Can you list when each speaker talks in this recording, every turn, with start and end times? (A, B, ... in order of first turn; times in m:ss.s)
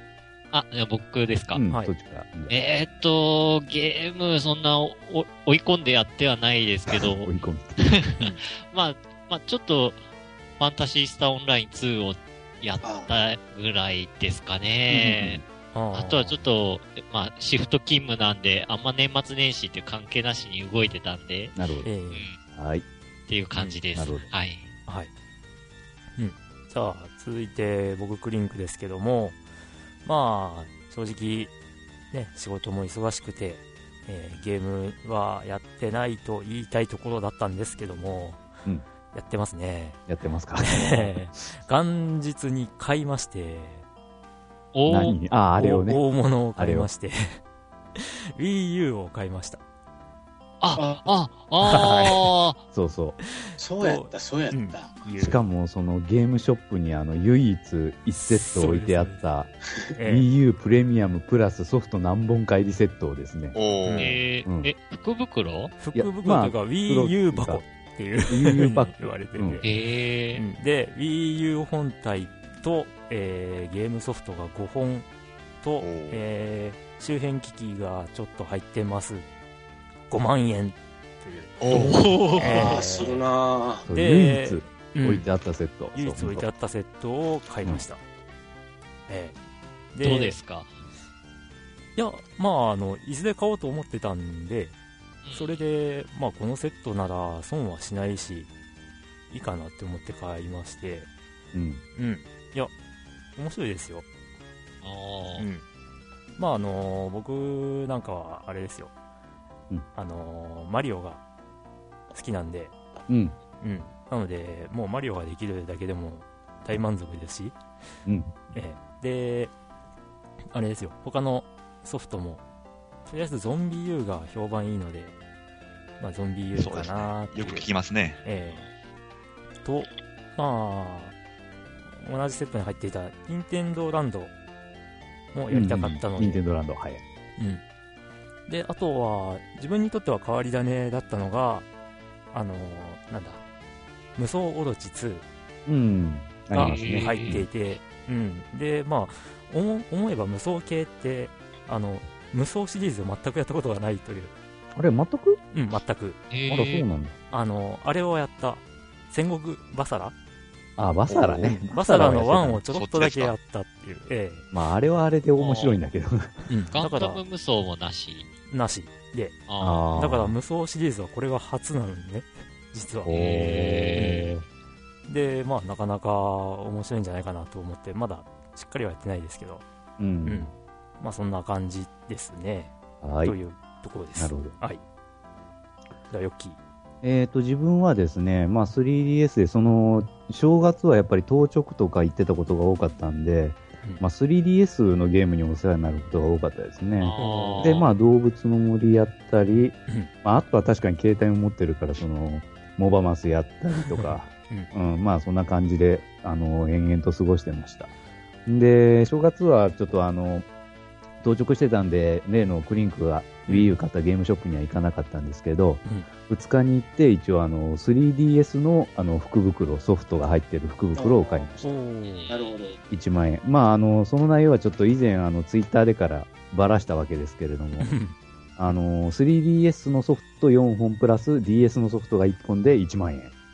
0:00.5-0:01.6 A
0:01.5-0:02.5 B
0:02.5-0:10.0 A
0:07.2-0:07.8 B
0:08.2-0:08.4 C
0:10.6-0:15.4 A
0:12.8-0:13.2 D
0:14.9-0:15.4 B
0:15.7-0:16.4 C
0:15.9-0:21.6 A
0:21.6-0:21.9 B
0:21.8-0:22.3 C
0:22.1-0:22.4 A
0:22.5-0:22.8 B
0:23.3-0:24.7 A
0:23.6-0:23.8 C
0:24.0-0:24.3 B
0:26.2-0:29.4 C
0:30.0-0:31.5 C
0:32.1-0:38.5 C
0:39.1-0:40.0 C
0:40.1-0:41.2 B
0:40.6-0:43.8 C
0:44.7-0:45.2 A
0:44.9-0:46.0 B
0:45.6-0:47.4 C
0:46.6-0:46.9 B
0:48.0-0:49.6 C
0:50.6-0:52.6 A
0:50.8-0:51.1 D
0:51.6-0:52.3 C
0:52.7-0:53.2 B
0:53.3-0:55.4 C
0:53.6-0:55.0 D
0:55.2-0:59.5 B
0:58.2-0:59.2 C
1:00.0-1:00.3 C
1:00.0-1:04.7 B
1:03.5-1:04.1 E
1:03.8-1:04.1 C
1:04.0-1:05.8 A
1:05.8-1:09.7 C
1:05.9-1:07.6 B
1:08.3-1:09.6 B
1:09.6-1:10.4 A
1:10.3-1:15.1 C
1:15.6-1:19.3 C
1:15.8-1:16.2 E
1:20.1-1:21.6 C
1:21.6-1:22.0 E
1:21.7-1:22.9 A
1:22.3-1:23.9 D
1:22.4-1:23.3 C
1:23.9-1:26.5 B
1:23.9-1:25.3 C
1:25.9-1:28.0 C
1:29.1-1:29.4 C
1:29.9-1:30.4 C
1:30.0-1:30.7 A
1:32.0-1:34.7 C
1:35.2-1:35.6 A
1:35.3-1:38.5 C
1:39.3-1:41.1 C
1:41.5-1:41.8 B
1:42.0-1:42.7 C
1:43.4-1:44.0 C
1:44.8-1:45.5 A
1:45.4-1:45.6 C
1:46.4-1:48.9 C
1:50.0-1:51.2 C
1:52.1-1:52.7 C
1:53.1-1:53.4 B
1:53.6-1:57.6 C
1:58.1-1:58.3 B
1:58.5-1:59.5 C
2:00.5-2:02.4 C
2:03.1-2:05.2 C
2:06.0-2:07.7 C
2:06.6-2:08.2 E
2:08.2-2:08.7 C
2:09.6-2:11.1 C
2:11.9-2:14.3 C
2:15.3-2:16.4 C
2:15.5-2:17.0 B
2:18.5-2:21.7 C
2:22.3-2:23.4 C
2:24.2-2:25.2 C
2:25.7-2:27.4 B
2:26.5-2:34.3 C
2:26.6-2:27.4 A
2:34.7-2:35.4 B
2:35.5-2:36.2 C
2:36.3-2:36.9 A
2:36.5-2:37.2 B
2:37.3-2:40.1 C
2:40.8-2:42.6 B
2:41.1-2:41.4 D
2:41.4-2:44.5 C
2:42.7-2:43.4 E
2:44.5-2:46.5 B
2:45.4-2:45.8 A
2:46.5-2:47.2 C
2:46.7-2:48.3 A
2:48.5-2:49.4 C
2:49.5-2:49.9 A
2:49.6-2:50.4 B
2:50.0-2:53.2 C
2:53.0-2:54.4 B
2:53.1-2:54.3 A
2:53.9-2:54.3 C
2:55.1-2:59.6 C
3:00.0-3:00.5 B
3:00.2-3:04.8 C
3:03.0-3:03.4 B
3:04.2-3:04.6 B
3:06.1-3:06.6 C
3:07.0-3:27.9 B
3:17.0-3:17.9 A
3:17.2-3:17.8 C
3:23.8-3:24.7 C
3:28.5-3:30.5 B
3:31.2-3:41.6 B
3:33.5-3:33.8 C
3:41.0-3:41.8 D
3:41.6-3:42.3 C
3:42.1-3:42.8 A
3:42.3-3:42.8 D
3:42.9-3:47.9 B
3:47.8-3:48.2 C
3:48.6-3:53.3 B